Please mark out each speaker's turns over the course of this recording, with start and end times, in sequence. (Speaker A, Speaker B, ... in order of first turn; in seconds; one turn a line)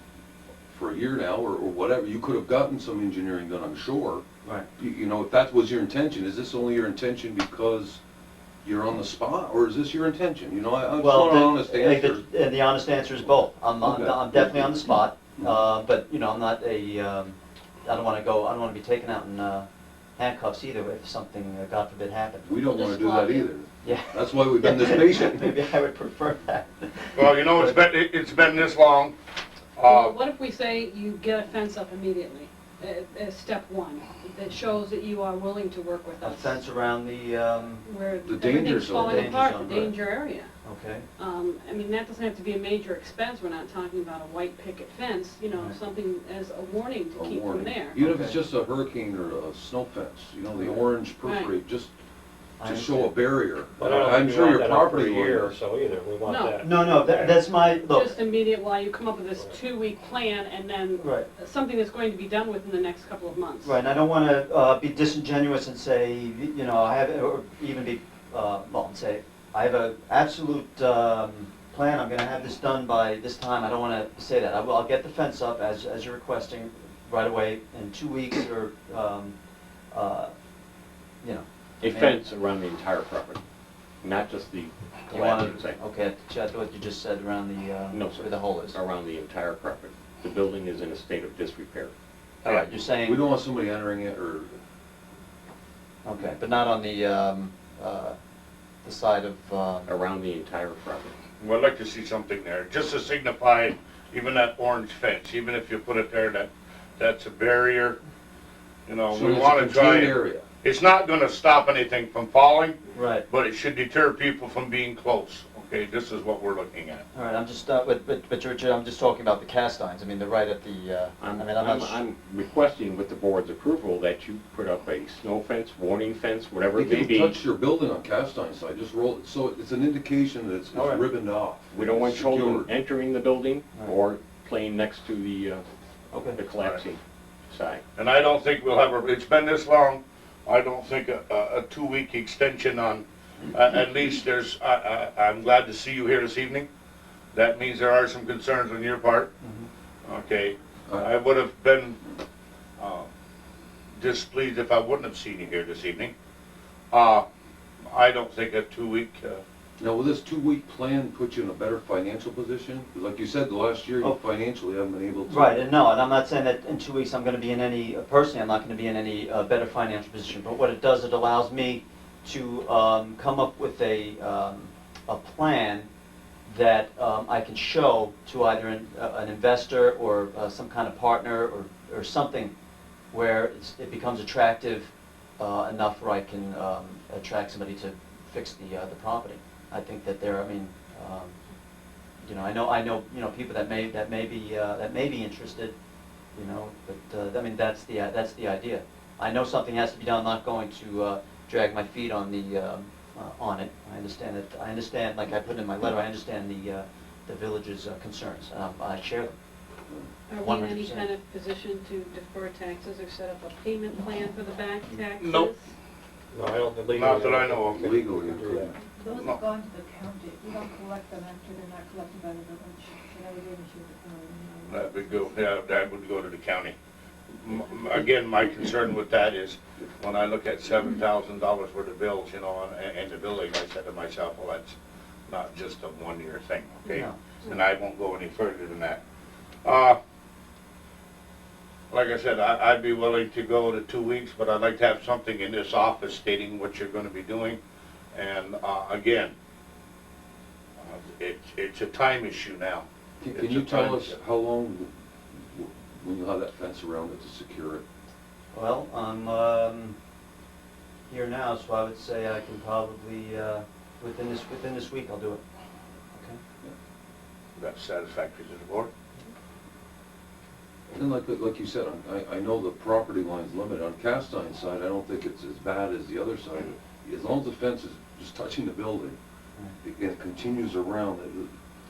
Speaker A: 0.7-4.2
Speaker A: 4.8-8.0
Speaker A: 8.6-12.2
Speaker B: 11.0-22.5
Speaker A: 13.8-15.6
Speaker A: 22.4-25.5
Speaker C: 22.6-23.5
Speaker B: 23.8-27.9
Speaker D: 27.1-29.1
Speaker D: 29.8-30.2
Speaker C: 29.9-36.6
Speaker B: 36.2-37.9
Speaker C: 37.9-40.5
Speaker A: 38.2-39.4
Speaker B: 38.5-40.0
Speaker B: 40.6-41.1
Speaker C: 41.2-48.0
Speaker A: 47.1-51.9
Speaker B: 48.0-48.4
Speaker B: 50.5-50.9
Speaker C: 51.2-51.5
Speaker B: 52.6-53.2
Speaker A: 52.6-55.6
Speaker E: 53.8-57.5
Speaker C: 56.3-56.6
Speaker B: 56.6-58.1
Speaker C: 57.9-63.8
Speaker B: 61.0-61.3
Speaker B: 63.6-79.3
Speaker B: 79.9-80.3
Speaker B: 81.2-82.2
Speaker F: 81.8-83.4
Speaker F: 84.0-85.8
Speaker B: 85.1-88.8
Speaker F: 87.9-91.9
Speaker B: 92.4-93.2
Speaker A: 93.0-94.6
Speaker B: 96.0-98.2
Speaker B: 98.8-99.9
Speaker F: 99.9-101.2
Speaker D: 101.4-108.0
Speaker D: 108.9-117.0
Speaker A: 109.1-110.4
Speaker B: 113.0-113.3
Speaker B: 117.1-122.0
Speaker F: 121.2-127.4
Speaker A: 126.7-132.7
Speaker B: 130.7-131.1
Speaker F: 131.7-135.6
Speaker B: 136.1-136.4
Speaker F: 136.3-137.8
Speaker D: 138.0-146.7
Speaker D: 147.3-149.3
Speaker B: 149.4-149.7
Speaker D: 150.1-152.0
Speaker D: 152.8-153.1
Speaker D: 154.0-156.1
Speaker D: 156.9-157.2
Speaker D: 157.9-159.4
Speaker A: 159.8-165.6
Speaker B: 165.3-175.9
Speaker B: 176.5-182.5
Speaker B: 183.1-191.4
Speaker B: 192.2-195.8
Speaker B: 196.3-209.4
Speaker C: 210.3-215.7
Speaker B: 210.4-211.1
Speaker D: 215.2-215.5
Speaker E: 216.3-218.8
Speaker D: 216.9-217.9
Speaker A: 217.8-218.8
Speaker G: 218.9-225.4
Speaker D: 219.1-219.4
Speaker D: 224.7-226.8
Speaker D: 227.4-234.8
Speaker D: 235.3-239.0
Speaker B: 236.9-237.2
Speaker D: 239.6-240.0
Speaker D: 241.9-247.6
Speaker D: 248.1-249.3
Speaker D: 250.8-254.2
Speaker A: 253.2-257.8
Speaker B: 258.5-260.0
Speaker B: 261.1-265.4
Speaker B: 266.1-266.4
Speaker D: 267.6-268.9
Speaker A: 270.9-279.2
Speaker A: 279.8-281.5